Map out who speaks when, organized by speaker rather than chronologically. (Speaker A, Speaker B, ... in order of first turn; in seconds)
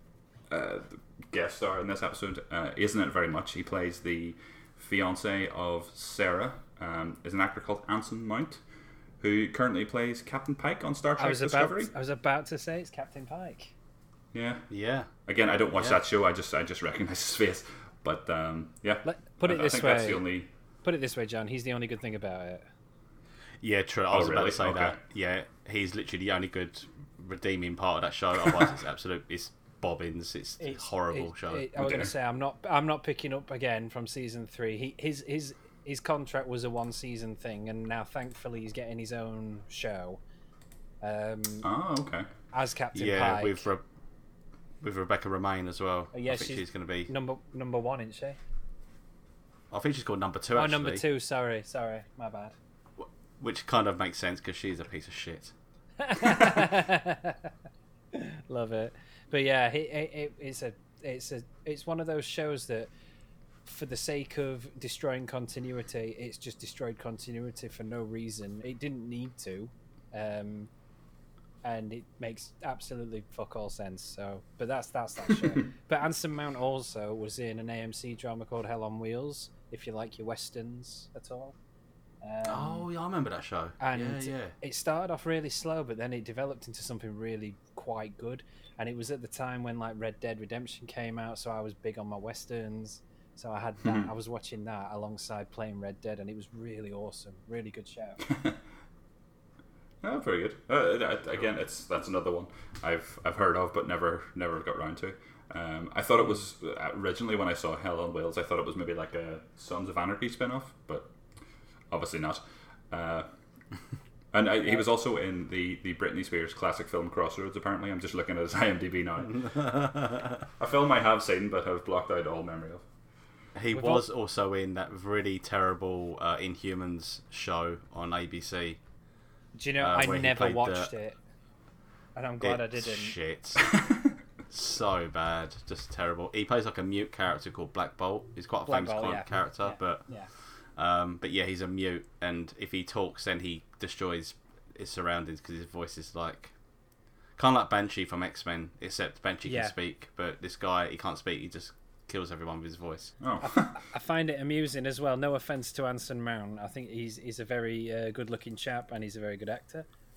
Speaker A: 0.5-8.6, 9.2-11.9, 14.3-14.7, 15.3-20.5, 24.1-25.0, 31.8-32.1, 41.6-42.3, 98.3-98.6, 100.0-111.1, 111.9-113.3, 114.3-119.7, 120.6-122.9, 133.7-134.1, 153.2-153.8
Speaker B: 11.2-13.8, 19.0-20.3, 20.8-22.6, 30.6-40.2, 41.0-41.7, 42.5-43.7, 46.1-48.4, 50.5-52.6, 56.0-57.5, 58.1-62.9, 63.6-70.7, 71.6-81.6, 82.2-82.9, 83.8-98.3, 123.7-124.0, 129.6-131.2, 132.2-133.2, 138.7-140.3, 149.5-149.7, 153.4-159.9
Speaker C: 14.7-15.1, 23.6-31.7, 43.0-43.8, 44.8-47.1, 49.7-51.0, 53.0-55.5, 82.5-84.5, 119.3-120.5, 123.5-128.8, 129.8-130.9, 132.4-133.7, 134.5-146.5, 147.4-153.2